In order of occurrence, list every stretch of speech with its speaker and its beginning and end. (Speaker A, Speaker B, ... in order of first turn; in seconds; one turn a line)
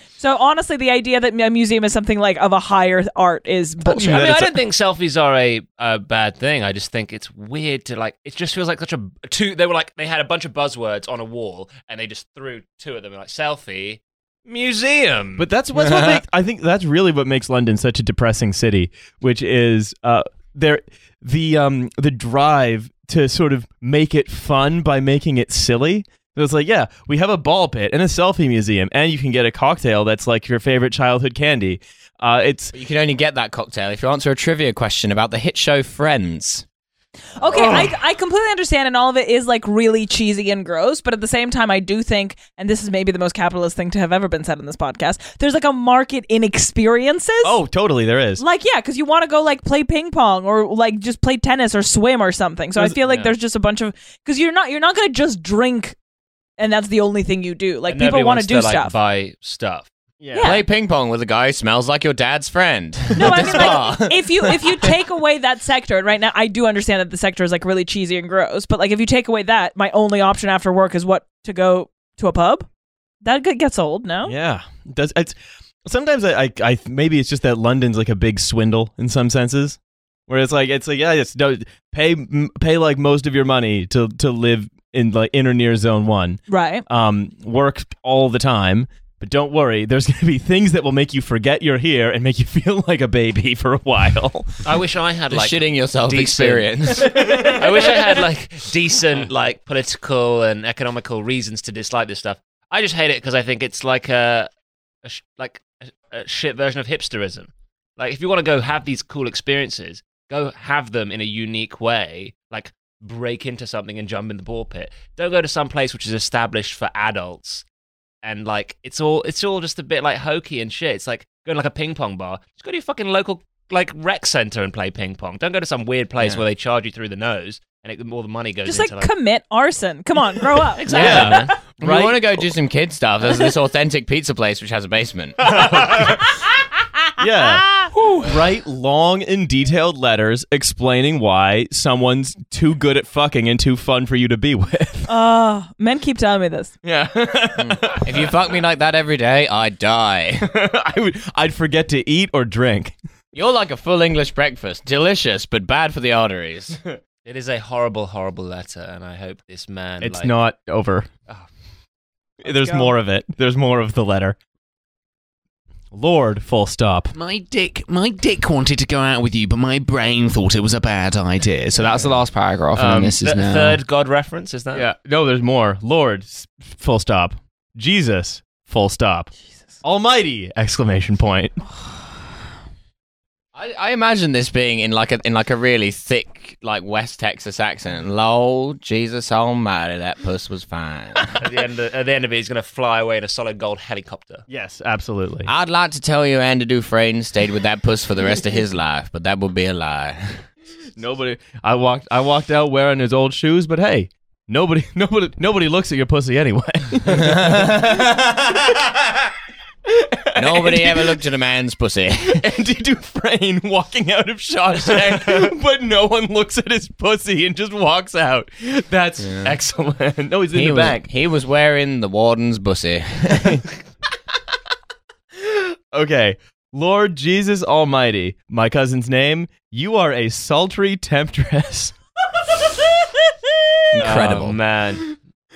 Speaker A: 0.2-4.3
Speaker B: 3.9-15.9
Speaker C: 4.0-4.6
Speaker C: 15.4-32.7
Speaker D: 32.7-36.6
Speaker A: 37.4-47.6
Speaker C: 37.6-37.9
Speaker C: 47.4-48.4
Speaker A: 48.4-56.0
Speaker A: 56.6-59.0
Speaker B: 57.9-59.9
Speaker C: 60.2-60.5
Speaker A: 60.3-60.7
Speaker D: 60.4-64.9
Speaker A: 63.1-72.7
Speaker A: 73.2-74.3
Speaker C: 74.2-94.6
Speaker A: 86.5-86.8
Speaker B: 94.7-104.5
Speaker D: 95.3-97.1
Speaker C: 97.0-97.8
Speaker B: 105.0-117.7
Speaker B: 118.2-129.1
Speaker D: 126.2-126.4
Speaker A: 128.7-131.2
Speaker B: 130.9-131.6
Speaker D: 130.9-135.4
Speaker C: 131.0-132.2
Speaker C: 135.4-136.2
Speaker C: 137.2-145.1
Speaker A: 145.1-146.7
Speaker C: 146.8-148.3
Speaker D: 147.6-150.5
Speaker C: 150.4-152.9
Speaker D: 153.3-156.8
Speaker B: 157.2-160.4
Speaker C: 160.0-161.1
Speaker A: 162.4-163.0
Speaker C: 162.4-164.4
Speaker C: 165.9-167.1
Speaker E: 167.1-173.8
Speaker C: 172.7-173.2
Speaker B: 173.2-174.9
Speaker C: 174.7-179.3
Speaker C: 179.8-181.6
Speaker D: 183.6-191.3
Speaker B: 191.3-194.4
Speaker C: 194.5-195.5
Speaker D: 195.5-200.4
Speaker C: 201.0-207.8
Speaker D: 207.3-208.0
Speaker C: 210.3-211.2
Speaker D: 210.4-212.4
Speaker C: 212.3-221.1
Speaker D: 219.2-219.6
Speaker D: 220.5-223.6
Speaker C: 225.9-231.9
Speaker D: 233.9-234.6
Speaker B: 234.0-235.1